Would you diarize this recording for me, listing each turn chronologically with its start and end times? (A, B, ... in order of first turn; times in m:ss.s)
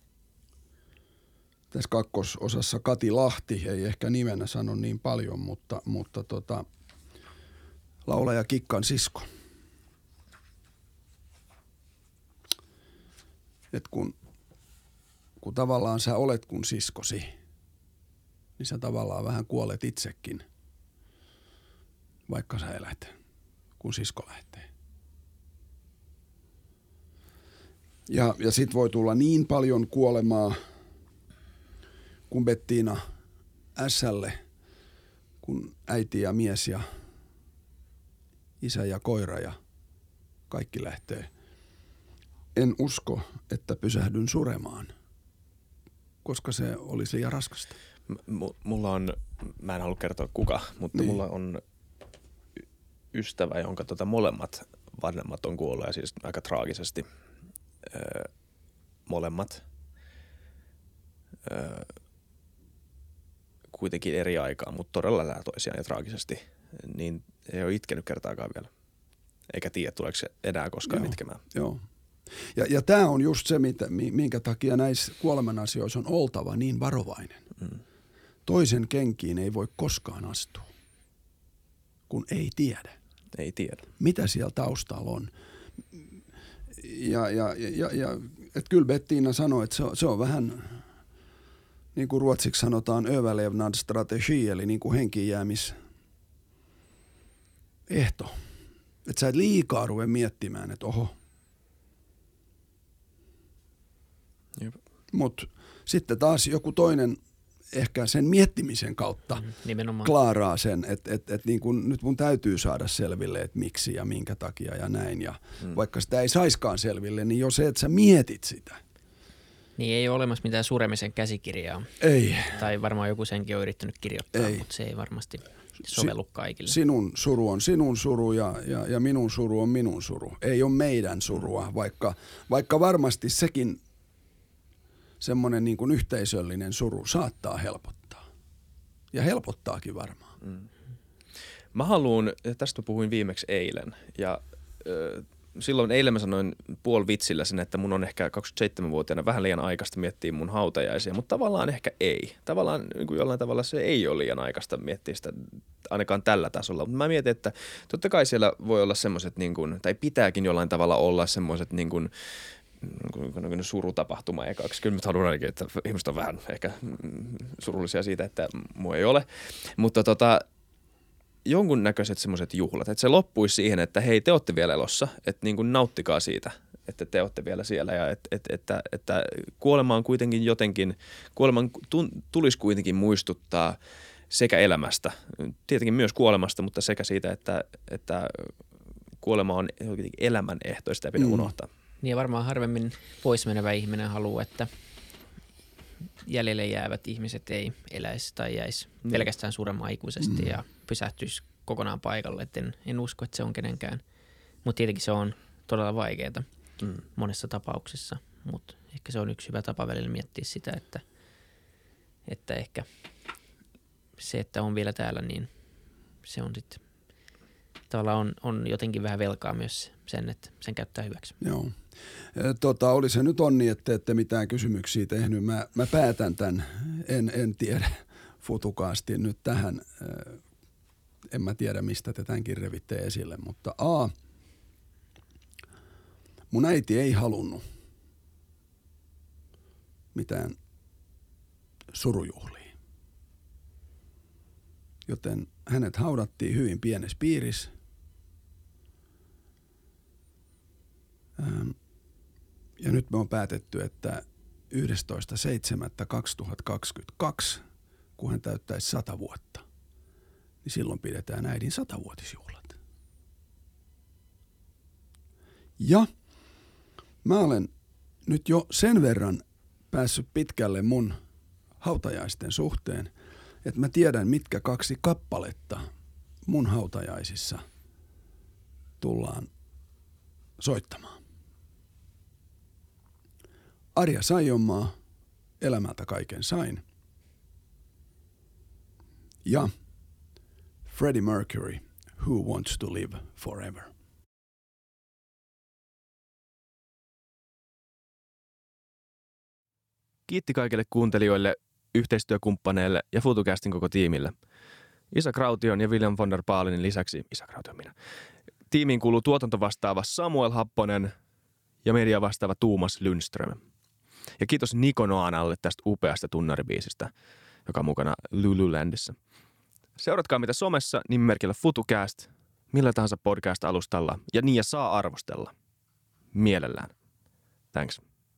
0:01.7-0:06.6 A
0:08.0-0:09.3 A
0:13.7-0:14.1 A
0:15.4-0:17.3 A
0:18.6-0:20.4 A
0:22.3-0:23.1 A
0:23.8-0:24.7 A
0:28.1-0:30.6 A
0:32.3-0:33.0 A
0:33.7-0:34.4 A
0:35.4-0:36.8 A
0:38.6-0:39.6 A
0:40.5-0:41.3 A
0:42.6-0:44.9 A
0:46.2-0:47.8 A
0:48.1-0:51.6 B
0:53.1-0:57.0 B
0:57.8-0:58.3 B
0:59.0-0:59.6 B
1:01.4-1:01.9 B
1:03.7-1:08.7 B
1:09.5-1:11.4 B
1:10.9-1:11.8 A
1:12.6-1:17.4 A
1:18.4-1:20.7 A
1:22.1-1:23.0 A
1:23.3-1:23.9 B
1:24.0-1:25.3 A
1:26.8-1:30.8 A
1:32.0-1:35.8 A
1:37.9-1:38.4 A
1:39.0-1:41.1 A
1:45.1-1:47.2 A
1:47.7-1:49.5 A
1:49.4-1:50.1 C
1:50.0-1:58.8 A
1:59.8-2:06.8 C
2:02.0-2:02.6 A
2:04.3-2:04.7 A
2:05.9-2:06.1 A
2:06.7-2:13.8 A
2:15.2-2:18.2 A
2:19.1-2:20.4 A
2:20.4-2:20.7 B
2:21.7-2:50.4 B
2:51.4-3:03.8 B
3:04.3-3:08.5 B
3:09.2-3:11.7 B
3:11.2-3:11.5 A
3:12.0-3:14.7 C
3:16.2-3:24.0 C
3:20.2-3:20.5 A
3:24.6-3:26.4 C
3:27.1-3:31.0 C
3:32.3-3:32.9 C
3:34.2-3:35.5 C
3:36.2-3:36.8 C
3:37.9-3:41.4 C
3:41.4-3:41.7 A
3:42.4-3:50.4 A
3:51.3-3:54.1 A
3:56.5-3:57.6 A
4:00.1-4:00.6 A
4:01.9-4:02.7 A
4:05.0-4:07.7 A
4:11.4-4:11.8 A
4:12.8-4:17.6 A
4:18.2-4:19.6 A
4:20.6-4:22.8 A
4:25.8-4:26.1 A
4:27.2-4:27.7 A
4:28.3-4:31.2 A
4:31.8-4:33.1 A
4:33.6-4:35.9 A
4:36.4-4:37.6 A
4:39.0-4:39.5 A
4:40.6-4:41.2 A
4:44.0-4:44.9 A
4:45.6-4:46.8 A
4:49.4-4:49.7 A
4:50.9-4:53.9 A
5:00.3-5:04.4 B
5:05.1-5:08.0 B
5:08.7-5:11.1 B
5:11.8-5:13.6 B
5:14.4-5:17.1 B
5:17.7-5:19.2 B
5:20.0-5:25.5 B
5:26.3-5:26.9 B
5:27.7-5:28.0 B